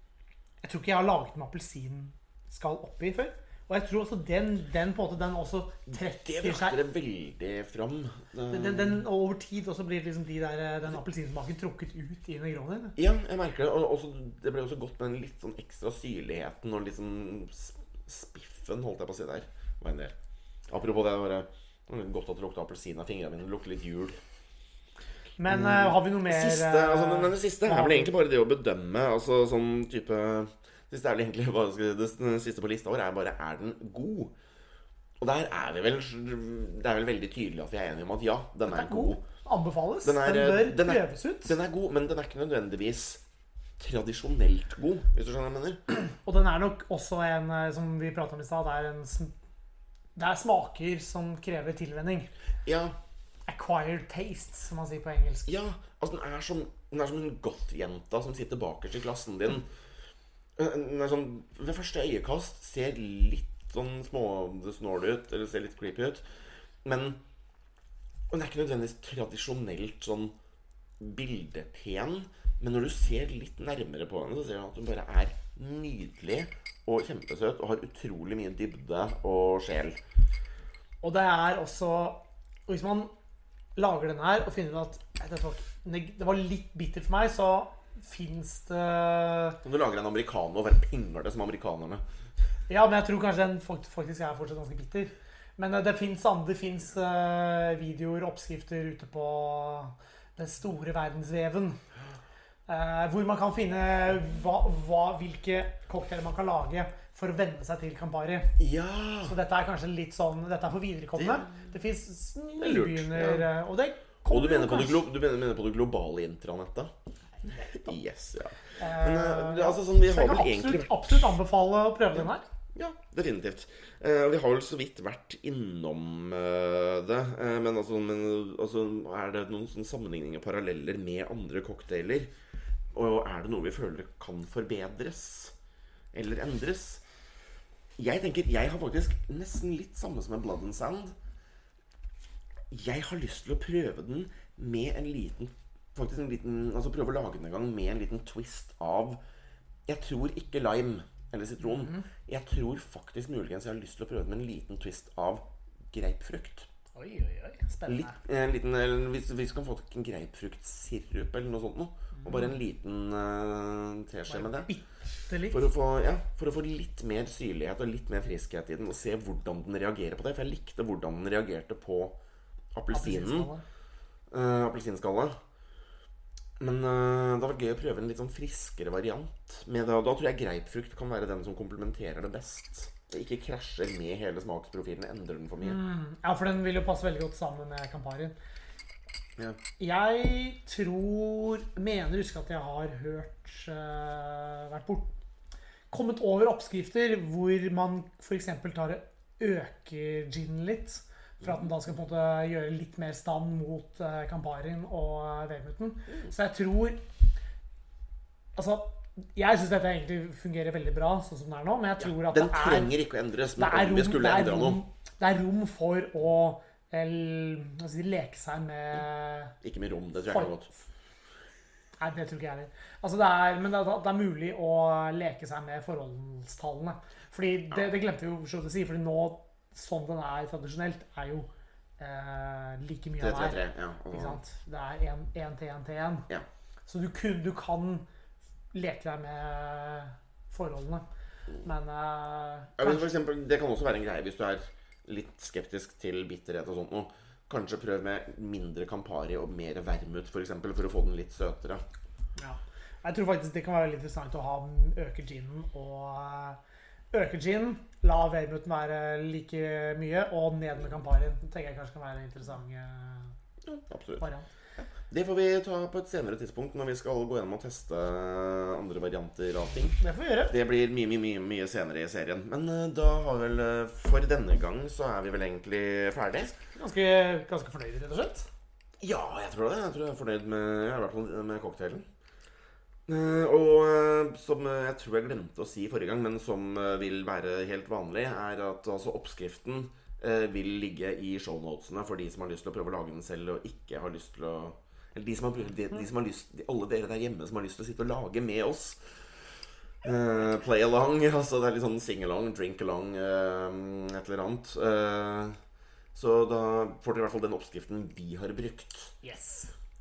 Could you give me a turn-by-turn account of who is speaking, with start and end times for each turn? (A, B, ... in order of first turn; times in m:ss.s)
0:00.6-0:06.8 A
0:05.9-0:09.0 B
0:08.5-0:13.0 A
0:13.0-0:20.2 B
0:20.7-0:24.2 B
0:25.4-0:28.1 A
0:25.5-0:34.3 B
0:35.2-0:39.2 B
0:38.7-0:41.6 A
0:40.0-0:43.2 B
0:43.8-0:45.8 B
0:46.2-0:49.3 A
0:50.2-0:52.3 A
0:52.6-0:53.0 B
0:53.5-0:55.5 A
0:55.5-0:59.7 B
1:00.6-1:06.3 B
1:06.8-1:07.2 B
1:08.3-1:10.4 B
1:11.0-1:20.0 B
1:21.0-1:23.1 A
1:23.8-1:29.6 A
1:29.6-1:32.0 B
1:32.7-1:41.8 A
1:42.7-1:48.6 A
1:48.6-1:49.4 B
1:49.2-1:55.0 A
1:51.2-1:51.5 B
1:52.6-1:53.5 B
1:54.3-1:56.9 B
1:57.4-1:57.9 A
1:57.4-2:00.9 B
1:58.8-2:02.5 A
2:02.8-2:12.3 B
2:12.9-2:15.5 B
2:16.1-2:17.0 B
2:18.0-2:21.2 B
2:22.7-2:29.2 B
2:29.9-2:36.7 B
2:31.6-2:32.0 A
2:36.9-2:38.2 A
2:37.9-2:44.7 B
2:44.3-2:45.6 A
2:45.5-2:52.2 B
2:52.8-2:53.5 B
2:52.9-2:53.6 A
2:54.3-2:55.4 B
2:56.6-3:05.8 B
3:05.6-3:08.4 A
3:09.8-3:15.2 A
3:15.9-3:27.0 A
3:28.6-3:32.9 A
3:32.0-3:34.8 B
3:33.6-3:39.5 A
3:39.6-3:40.7 B
3:42.0-3:56.3 A
3:53.2-3:54.4 B
3:56.9-3:58.1 A
3:58.7-4:01.0 A
4:01.6-4:03.1 A
4:02.8-4:11.8 B
4:12.4-4:16.6 A
4:17.1-4:23.3 A
4:23.6-4:24.3 B
4:24.2-4:24.5 A
4:24.8-4:36.6 B
4:30.0-4:30.5 A
4:36.8-4:38.5 A
4:39.0-4:42.1 B
4:43.1-4:59.1 B
5:00.0-5:05.6 B
5:06.1-5:09.2 B
5:09.2-5:09.7 A